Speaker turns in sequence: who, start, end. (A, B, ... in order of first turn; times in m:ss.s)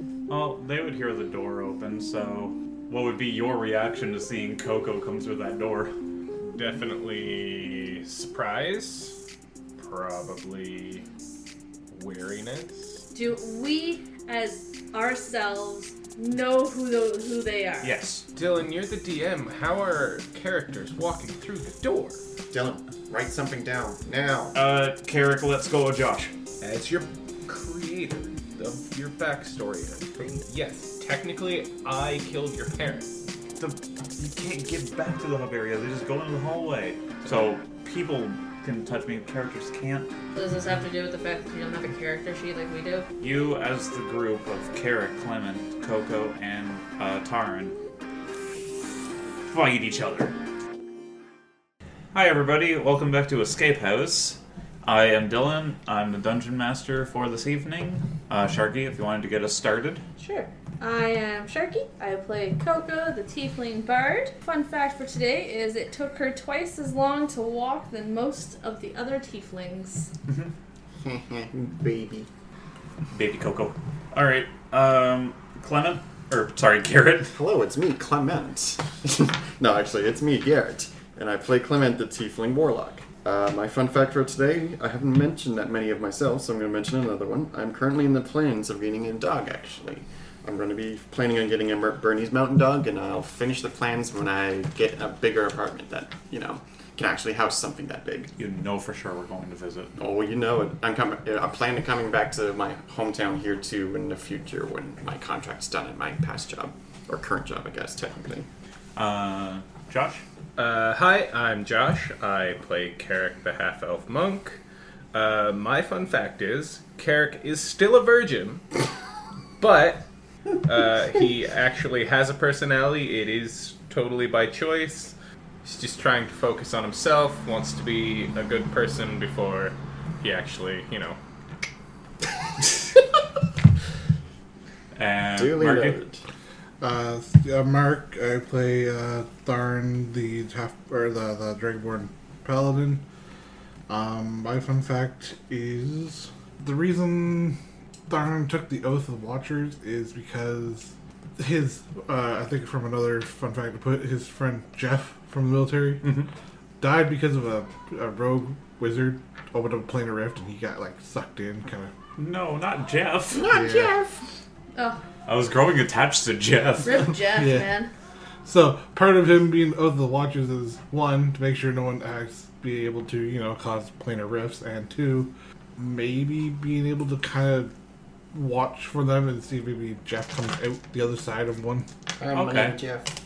0:00.3-0:05.9 A
0:06.4-0:09.2 B
0:09.8-0:11.0 B
0:11.9-0:13.0 B
0:13.1-0:17.9 C
0:17.8-0:18.2 A
0:18.3-0:22.2 B
0:22.5-0:24.5 D
0:24.5-0:26.3 A
0:26.6-0:33.2 B
0:33.6-0:40.1 A
0:40.3-0:43.1 C
0:43.2-0:47.7 A
0:49.5-0:50.3 A
0:52.1-1:00.0 A
1:00.2-1:10.1 C
1:11.0-1:12.3 D
1:13.1-1:17.4 A
1:17.3-1:38.3 D
1:38.4-1:39.9 A
1:40.0-1:48.5 D
1:49.0-1:50.2 A
1:50.6-1:54.6 B
1:55.1-1:58.7 B
1:59.6-2:00.1 B
2:00.6-2:11.2 B
2:14.9-2:16.0 A
2:15.3-2:16.2 D
2:16.8-2:23.0 E
2:23.9-2:36.0 E
2:36.0-2:36.3 A
2:36.8-2:41.9 E
2:42.2-2:43.4 A
2:43.3-2:44.2 D
2:43.5-2:43.9 E
2:44.7-2:45.0 C
2:45.3-2:47.1 A
2:46.8-2:47.9 C
2:47.3-2:47.7 E
2:48.4-2:57.7 E
2:58.3-3:01.9 E
3:02.2-3:03.1 D
3:02.3-3:02.8 A